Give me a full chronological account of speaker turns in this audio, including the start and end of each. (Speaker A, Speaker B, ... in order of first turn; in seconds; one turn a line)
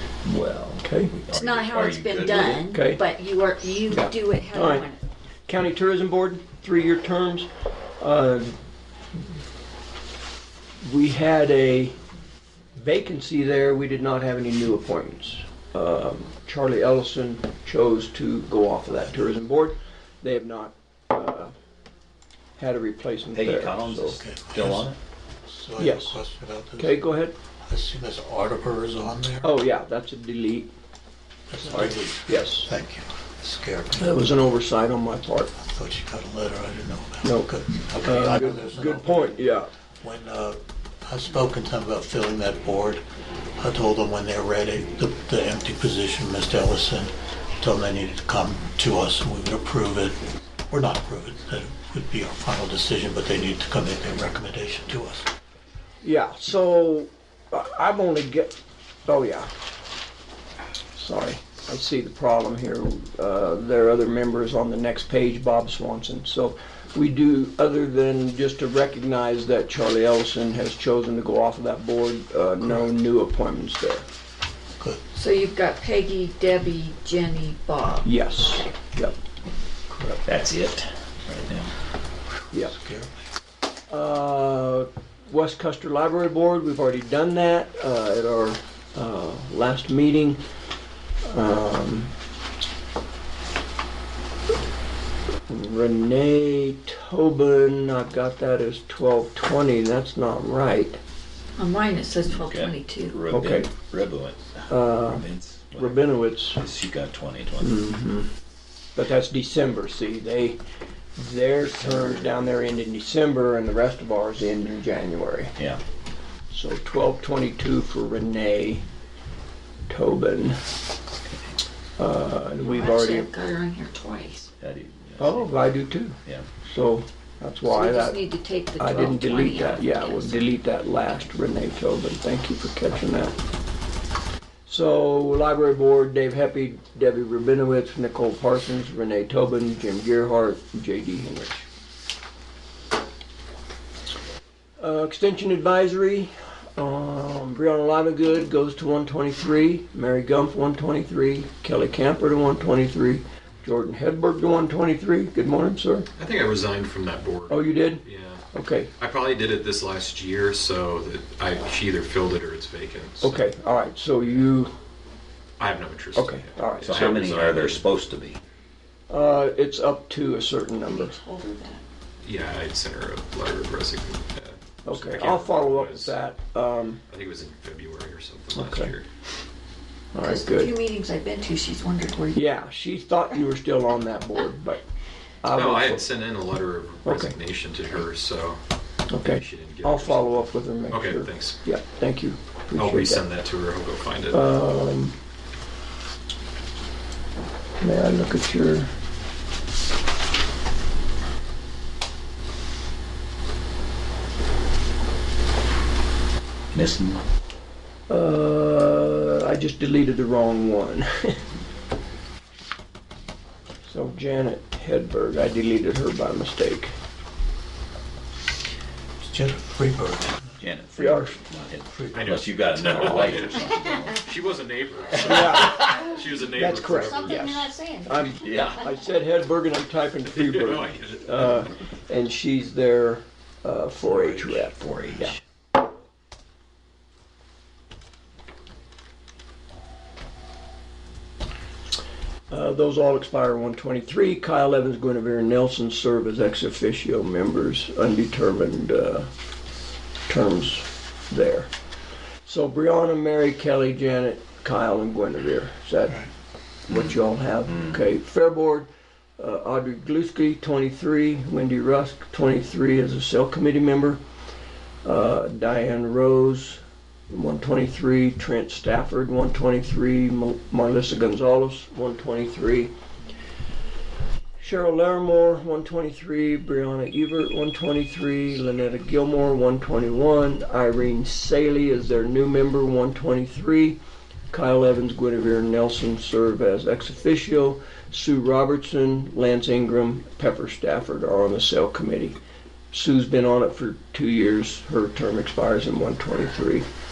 Speaker A: 0.2-2.7
Speaker B: 0.8-1.1
Speaker C: 1.3-5.0
Speaker B: 2.7-3.0
Speaker B: 3.9-4.8
Speaker B: 5.5-7.5
Speaker B: 8.0-8.5
Speaker B: 10.8-11.9
Speaker B: 12.8-21.5
Speaker D: 18.9-19.2
Speaker B: 22.6-24.2
Speaker A: 23.3-25.0
Speaker D: 24.1-24.9
Speaker D: 25.5-27.0
Speaker B: 25.8-26.2
Speaker B: 26.8-27.3
Speaker D: 27.6-29.5
Speaker B: 29.4-30.7
Speaker D: 31.5-34.3
Speaker B: 31.6-32.7
Speaker B: 34.0-35.5
Speaker D: 35.5-43.0
Speaker B: 37.2-37.5
Speaker B: 38.0-39.7
Speaker D: 43.6-55.3
Speaker B: 56.0-58.5
Speaker B: 59.0-59.5
Speaker B: 61.0-74.0
Speaker D: 72.6-72.9
Speaker C: 75.1-78.1
Speaker B: 78.0-79.2
Speaker D: 79.9-80.2
Speaker A: 80.2-81.7
Speaker D: 82.6-83.2
Speaker B: 83.9-90.4
Speaker B: 91.2-92.1
Speaker B: 95.5-101.0
Speaker C: 101.6-103.2
Speaker A: 102.3-107.8
Speaker B: 103.3-103.7
Speaker B: 104.7-105.2
Speaker B: 105.8-106.6
Speaker B: 107.6-108.3
Speaker B: 108.9-110.6
Speaker B: 111.2-115.5
Speaker B: 116.5-118.8
Speaker B: 119.9-120.6
Speaker B: 122.0-123.3
Speaker C: 122.6-124.5
Speaker A: 124.6-125.7
Speaker B: 125.2-128.2
Speaker C: 127.7-130.4
Speaker B: 128.8-133.3
Speaker B: 134.7-141.7
Speaker B: 144.8-156.1
Speaker E: 156.2-158.4
Speaker B: 157.5-158.9
Speaker E: 159.0-163.5
Speaker B: 163.2-164.7
Speaker E: 165.6-167.8
Speaker B: 166.2-167.0
Speaker A: 166.8-168.4
Speaker B: 169.1-171.2
Speaker C: 170.8-171.8
Speaker E: 172.2-176.2
Speaker B: 174.8-177.0
Speaker E: 177.1-179.1
Speaker B: 178.5-178.9
Speaker B: 180.1-180.7
Speaker C: 180.2-182.5
Speaker B: 182.3-184.8
Speaker B: 185.4-186.0
Speaker E: 185.5-188.6
Speaker B: 187.0-187.3
Speaker B: 189.1-193.2
Speaker E: 189.2-191.6
Speaker E: 192.7-194.5
Speaker B: 194.3-195.1
Speaker B: 197.8-198.9
Speaker A: 206.7-207.2
Speaker B: 208.1-211.4
Speaker B: 213.8-216.9
Speaker D: 219.2-220.6
Speaker A: 220.6-224.2
Speaker B: 220.9-221.4
Speaker D: 221.9-222.3
Speaker E: 222.1-227.5
Speaker B: 222.9-223.4
Speaker B: 225.2-225.8
Speaker C: 225.8-226.2
Speaker B: 226.4-235.3
Speaker C: 226.9-228.8
Speaker A: 228.4-228.8
Speaker E: 230.3-231.7
Speaker A: 234.0-235.4
Speaker B: 242.5-249.3
Speaker B: 250.3-251.7
Speaker B: 252.4-256.2
Speaker B: 256.9-264.2
Speaker A: 256.9-257.1
Speaker A: 257.7-258.0
Speaker B: 265.0-272.9
Speaker B: 274.6-284.0
Speaker B: 284.5-292.4
Speaker B: 292.9-296.8